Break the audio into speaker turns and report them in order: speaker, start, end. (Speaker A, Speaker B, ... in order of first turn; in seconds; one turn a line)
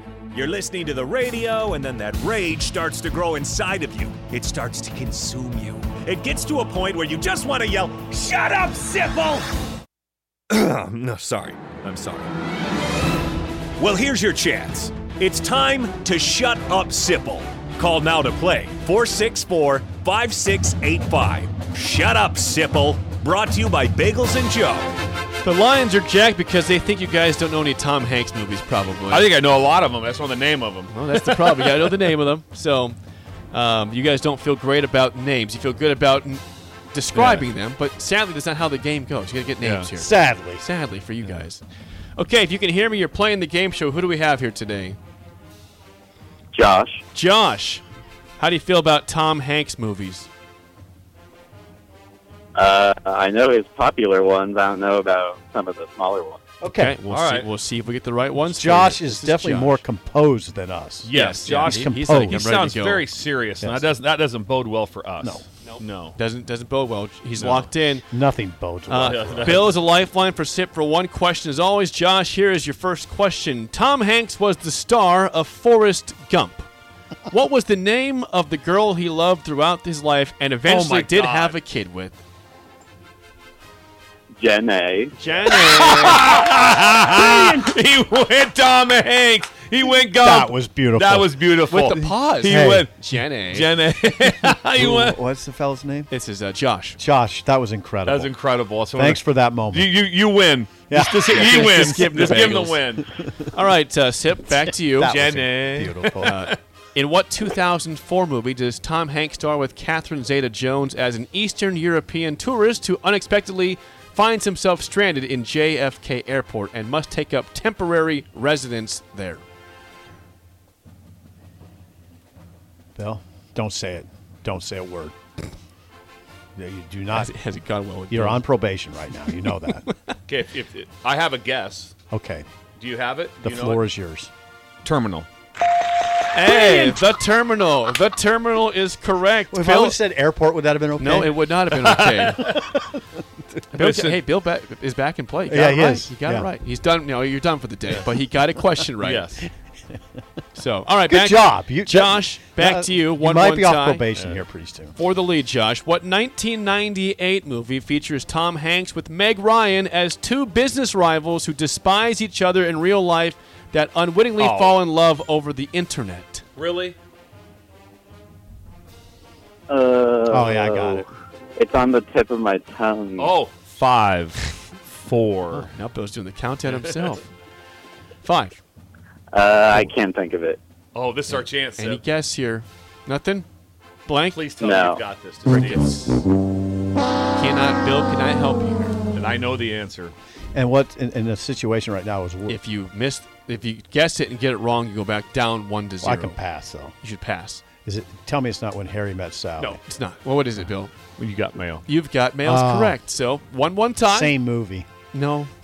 Speaker A: 0.3-9.5
Speaker A: 10.5-12.3
Speaker A: 13.8-24.9
Speaker B: 25.4-29.3
Speaker C: 29.1-31.9
Speaker B: 30.9-33.0
Speaker B: 33.5-41.6
Speaker C: 37.1-37.5
Speaker C: 39.6-39.9
Speaker D: 40.0-40.6
Speaker B: 42.2-45.0
Speaker E: 46.5-47.0
Speaker B: 47.1-47.8
Speaker B: 48.4-50.3
Speaker E: 52.5-56.4
Speaker D: 56.6-57.0
Speaker B: 56.7-59.8
Speaker C: 57.1-57.5
Speaker D: 58.4-62.5
Speaker C: 61.1-66.2
Speaker B: 61.1-63.1
Speaker D: 63.6-63.9
Speaker B: 65.7-68.0
Speaker C: 67.4-67.7
Speaker D: 68.1-69.8
Speaker B: 68.9-76.7
Speaker C: 69.0-69.8
Speaker B: 77.3-82.2
Speaker C: 80.7-81.6
Speaker E: 84.4-85.1
Speaker B: 85.2-86.3
Speaker C: 85.5-95.2
Speaker D: 87.1-87.6
Speaker D: 90.2-91.3
Speaker B: 91.7-93.7
Speaker D: 91.9-92.9
Speaker D: 94.7-96.1
Speaker B: 96.1-97.0
Speaker D: 97.0-98.3
Speaker C: 98.0-103.1
Speaker D: 98.9-100.0
Speaker D: 100.9-102.6
Speaker B: 101.3-102.8
Speaker B: 103.4-105.2
Speaker D: 104.9-106.4
Speaker C: 105.0-106.5
Speaker B: 106.2-119.4
Speaker D: 123.0-125.2
Speaker D: 126.6-127.3
Speaker B: 127.1-128.4
Speaker D: 128.1-129.8
Speaker C: 130.3-131.9
Speaker D: 132.1-132.5
Speaker C: 132.8-133.8
Speaker D: 133.4-134.3
Speaker C: 134.8-135.3
Speaker B: 136.3-140.0
Speaker C: 136.6-136.9
Speaker D: 139.5-141.5
Speaker B: 141.0-142.5
Speaker C: 141.7-142.8
Speaker C: 143.7-144.2
Speaker B: 143.7-149.3
Speaker D: 145.5-146.5
Speaker C: 149.0-149.4
Speaker B: 150.6-154.0
Speaker D: 151.1-154.9
Speaker C: 154.1-154.4
Speaker B: 155.0-166.4
Speaker C: 164.4-164.8
Speaker C: 166.6-167.0
Speaker E: 169.7-171.1
Speaker D: 170.3-171.1
Speaker E: 171.6-173.3
Speaker C: 173.2-175.7
Speaker B: 175.6-177.3
Speaker C: 176.7-177.2
Speaker B: 178.2-178.6
Speaker E: 179.3-180.6
Speaker C: 180.9-182.0
Speaker B: 181.3-183.5
Speaker B: 184.1-184.4
Speaker C: 184.3-185.9
Speaker E: 184.6-185.0
Speaker B: 185.5-186.2
Speaker B: 187.3-189.0
Speaker C: 189.1-190.2
Speaker D: 190.5-192.6
Speaker B: 192.5-196.4
Speaker D: 196.0-197.0
Speaker B: 197.0-197.6
Speaker D: 197.8-199.8
Speaker B: 199.6-200.9
Speaker C: 201.2-201.8
Speaker B: 201.9-204.3
Speaker D: 202.4-203.0
Speaker D: 204.1-204.9
Speaker B: 205.1-205.5